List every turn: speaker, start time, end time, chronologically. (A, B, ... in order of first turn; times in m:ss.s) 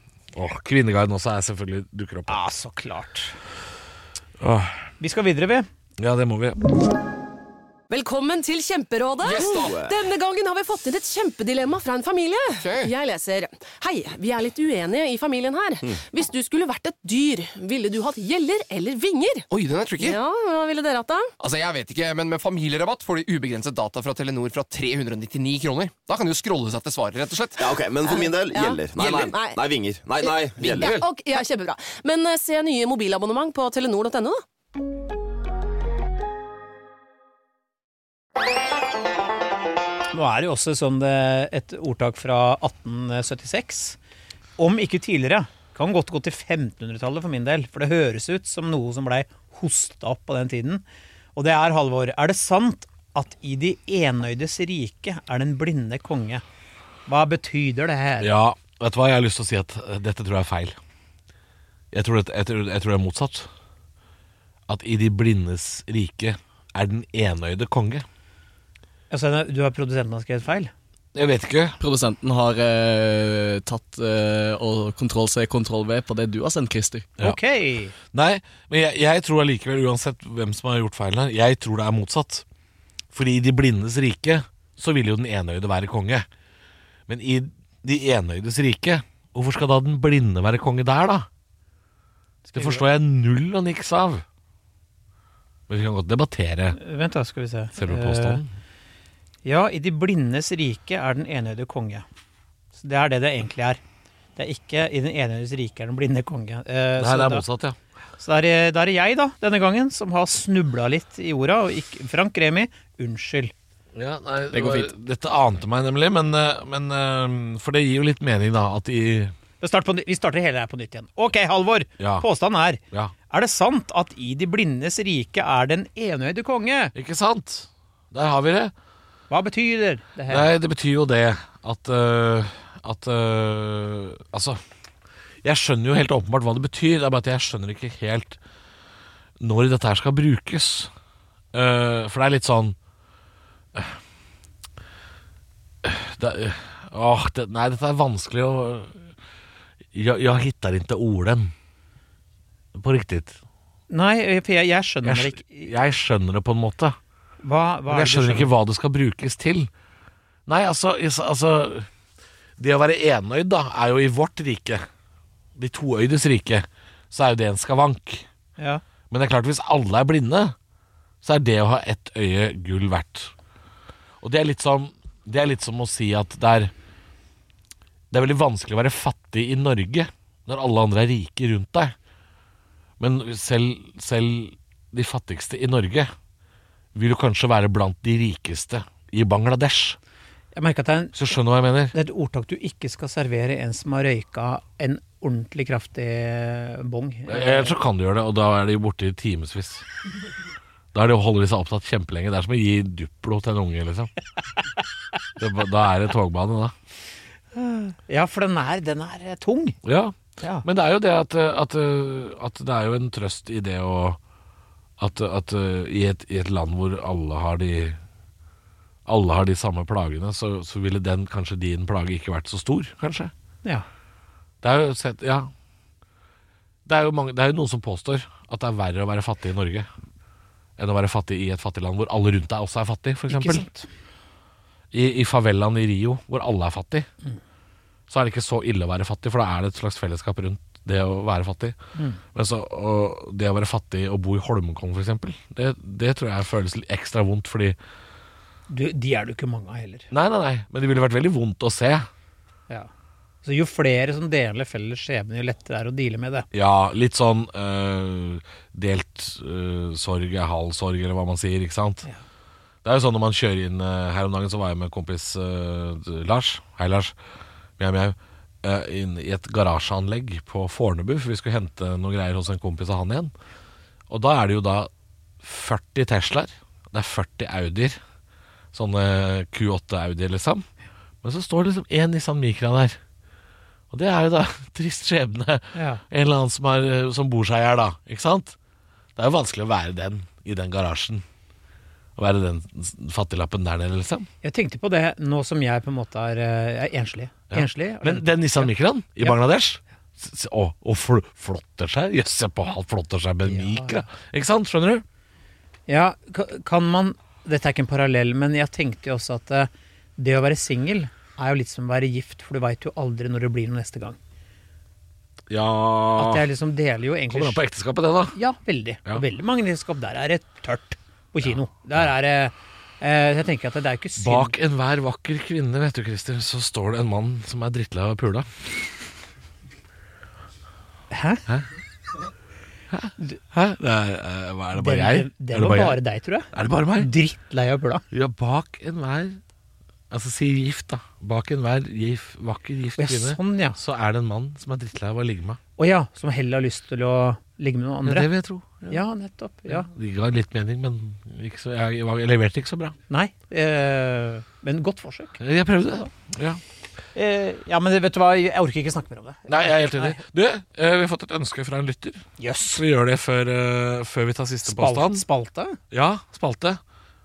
0:00.3-0:02.4 A
0:02.3-0:03.4 B
0:04.4-0:04.8 A
0:05.0-0:05.7 B
0:06.0-0:06.6 A
0:07.9-0:19.4 C
0:09.2-0:09.9 D
0:12.6-0:12.9 D
0:19.5-0:20.2 D
0:20.0-0:21.3 C
0:21.4-0:27.8 D
0:27.6-0:30.9 E
0:28.0-0:34.4 C
0:30.6-0:31.1 D
0:40.1-0:44.0 B
0:44.6-0:50.8 B
0:51.4-0:56.4 B
0:57.0-0:58.3 B
0:58.2-1:00.8 A
1:01.9-1:03.5 A
1:04.7-1:08.0 A
1:09.1-1:10.7 B
1:11.1-1:11.8 A
1:11.8-1:17.1 F
1:17.2-1:18.0 B
1:18.1-1:22.4 A
1:23.1-1:26.3 A
1:27.1-1:31.3 A
1:32.5-1:32.8 B
1:32.5-1:34.2 A
1:35.7-1:36.8 A
1:36.7-1:38.4 B
1:37.8-1:38.5 A
1:39.4-1:42.0 B
1:42.8-1:43.8 B
1:44.4-1:47.5 B
1:47.0-1:47.8 A
1:48.2-1:53.5 B
1:54.0-1:59.3 A
1:54.5-1:54.9 F
1:59.6-2:06.9 B
2:02.0-2:02.2 A
2:07.0-2:08.7 A
2:09.3-2:10.5 B
2:10.3-2:14.6 A
2:15.4-2:18.4 A
2:19.4-2:20.9 A
2:21.5-2:22.8 A
2:25.8-2:29.1 A
2:29.9-2:31.5 A
2:32.8-2:33.4 A
2:33.9-2:35.7 B
2:35.0-2:37.0 A
2:37.4-2:38.5 B
2:37.9-2:39.7 A
2:40.5-2:41.9 A
2:42.6-2:44.8 A
2:45.6-2:48.2 A
2:49.1-2:50.5 A
2:51.2-2:53.3 A
2:54.2-2:56.7 A
2:58.1-3:02.0 A
3:03.0-3:06.1 A
3:06.9-3:10.0 A
3:10.5-3:11.3 B
3:11.1-3:12.0 A
3:11.9-3:17.8 B
3:17.3-3:19.8 A
3:20.9-3:24.1 A
3:25.4-3:26.8 A
3:27.5-3:29.8 B
3:29.8-3:34.2 A
3:30.4-3:30.7 B
3:35.0-3:38.0 A
3:39.0-3:43.3 A
3:44.6-3:45.5 A
3:46.8-3:49.9 A
3:50.8-3:53.7 A
3:53.3-3:53.9 B
3:54.9-3:57.1 A
3:58.1-4:01.8 A
4:02.0-4:02.2 B
4:02.3-4:07.8 A
4:08.7-4:10.1 B
4:10.1-4:12.1 A
4:13.4-4:16.5 B
4:16.5-4:22.0 A
4:22.8-4:27.1 A
4:27.8-4:33.3 A
4:34.1-4:34.9 A
4:35.4-4:38.0 A
4:38.7-4:40.7 A
4:41.2-4:43.0 A
4:43.9-4:48.6 A
4:45.7-4:46.0 B
4:49.2-4:51.2 A
4:52.2-4:54.3 A
4:54.4-4:59.4 B
4:57.5-5:05.0 A
5:03.5-5:04.0 B
5:05.9-5:14.2 B
5:15.5-5:16.5 A
5:16.2-5:17.6 B
5:17.3-5:18.4 A
5:18.3-5:24.6 B
5:24.2-5:28.9 A
5:31.1-5:31.5 B
5:32.9-5:36.0 A
5:34.7-5:38.0 B
5:36.5-5:37.1 A
5:38.1-5:39.4 A
5:40.1-5:45.6 A
5:43.0-5:43.8 B
5:45.8-5:48.3 B
5:48.0-5:49.0 A
5:48.9-5:49.9 B
5:49.7-5:53.0 A
5:53.1-5:55.4 B
5:55.4-5:56.6 A
5:57.1-6:00.2 B
5:59.5-6:05.2 A
6:02.4-6:02.8 B
6:04.6-6:05.8 B
6:05.9-6:06.8 A